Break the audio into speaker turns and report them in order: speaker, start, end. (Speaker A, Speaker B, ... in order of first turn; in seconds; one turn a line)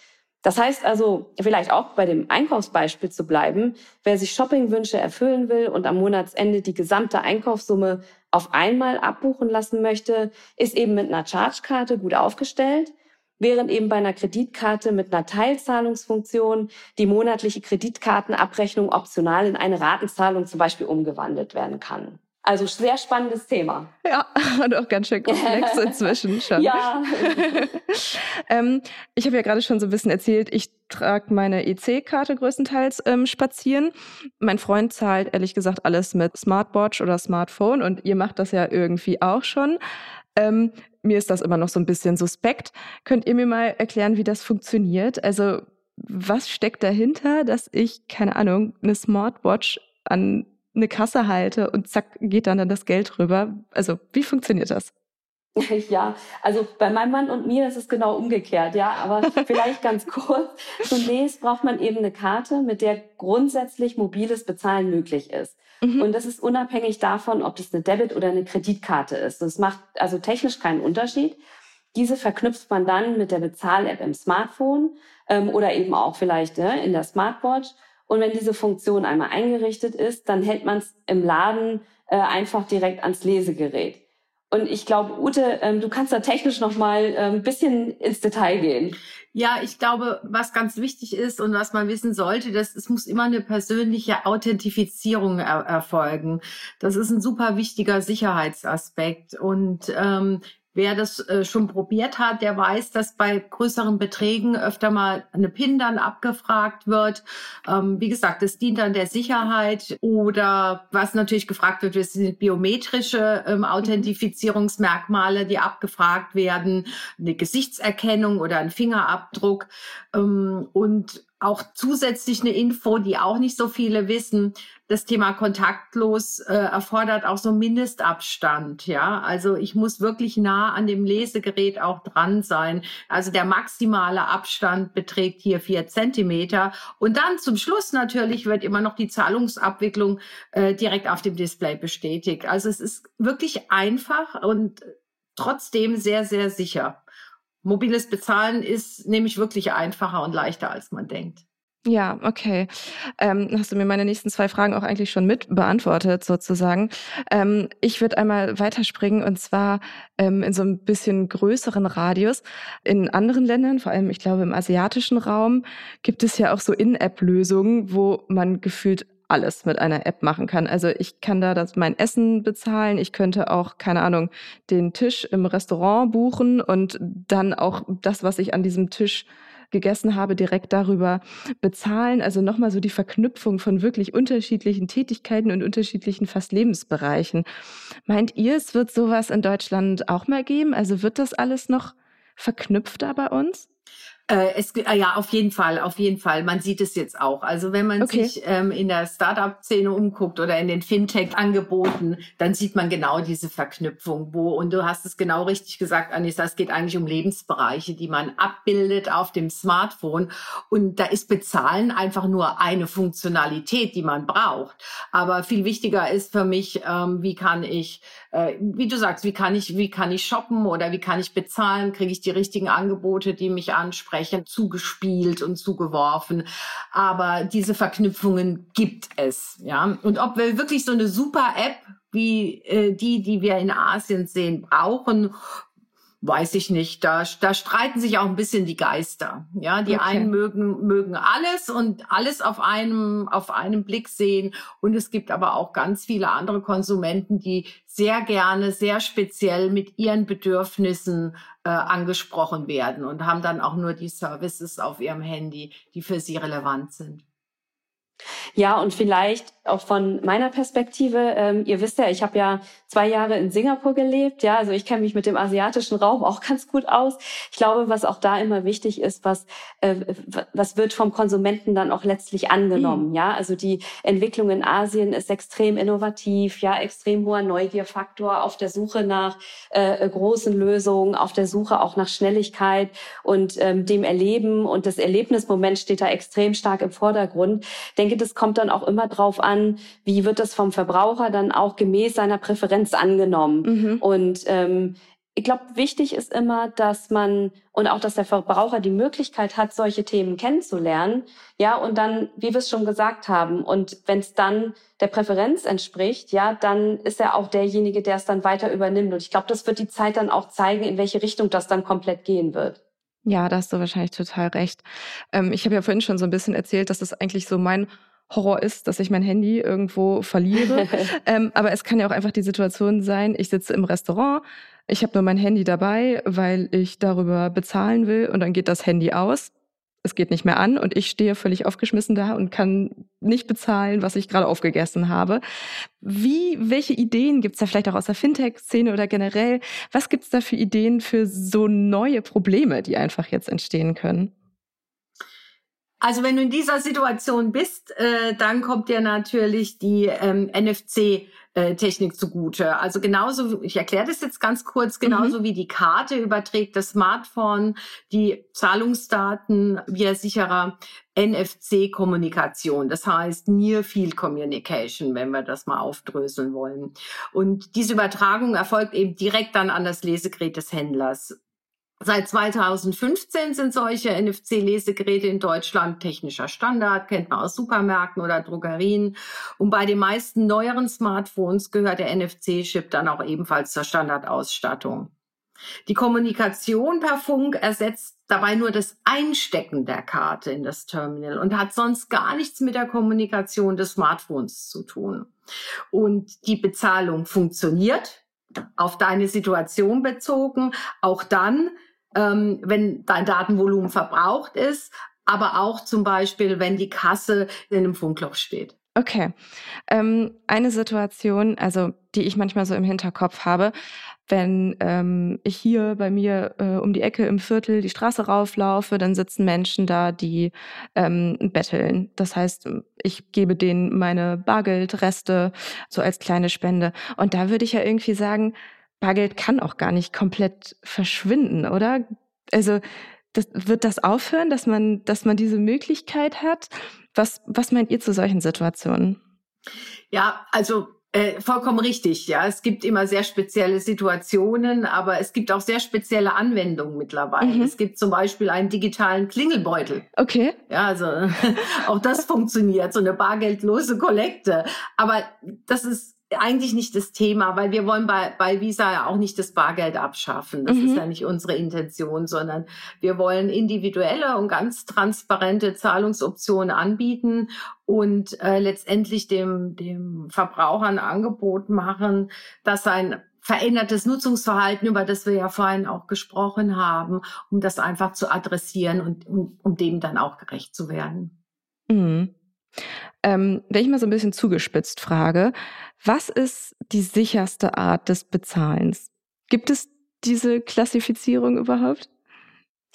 Speaker A: 0.4-23.9
Speaker B: 24.0-39.8
Speaker A: 25.2-27.7
Speaker B: 40.4-54.9
Speaker A: 55.6-71.4
Speaker B: 65.8-66.1
Speaker A: 71.9-84.0
Speaker A: 84.5-89.0
Speaker C: 89.3-147.0
Speaker C: 147.6-151.4
Speaker B: 151.8-187.4
Speaker B: 188.1-193.7
Speaker C: 194.3-235.3
Speaker B: 198.0-198.3
Speaker C: 236.2-257.2
Speaker B: 239.9-240.3
Speaker A: 258.6-312.8
Speaker B: 272.8-273.0
Speaker B: 293.6-294.0
Speaker B: 313.2-329.5
Speaker B: 330.0-335.4
Speaker B: 336.0-344.3
Speaker C: 346.0-371.4
Speaker B: 355.0-355.3
Speaker C: 372.0-385.1
Speaker C: 385.9-395.3
Speaker C: 395.9-398.2
Speaker C: 398.8-408.7
Speaker B: 409.0-409.3
Speaker B: 409.9-413.7
Speaker B: 414.3-432.8
Speaker B: 433.3-439.2
Speaker C: 440.1-450.1
Speaker B: 447.4-447.7
Speaker B: 450.2-450.6
Speaker C: 450.7-481.3
Speaker B: 460.7-461.0
Speaker B: 481.9-482.3
Speaker B: 483.2-492.1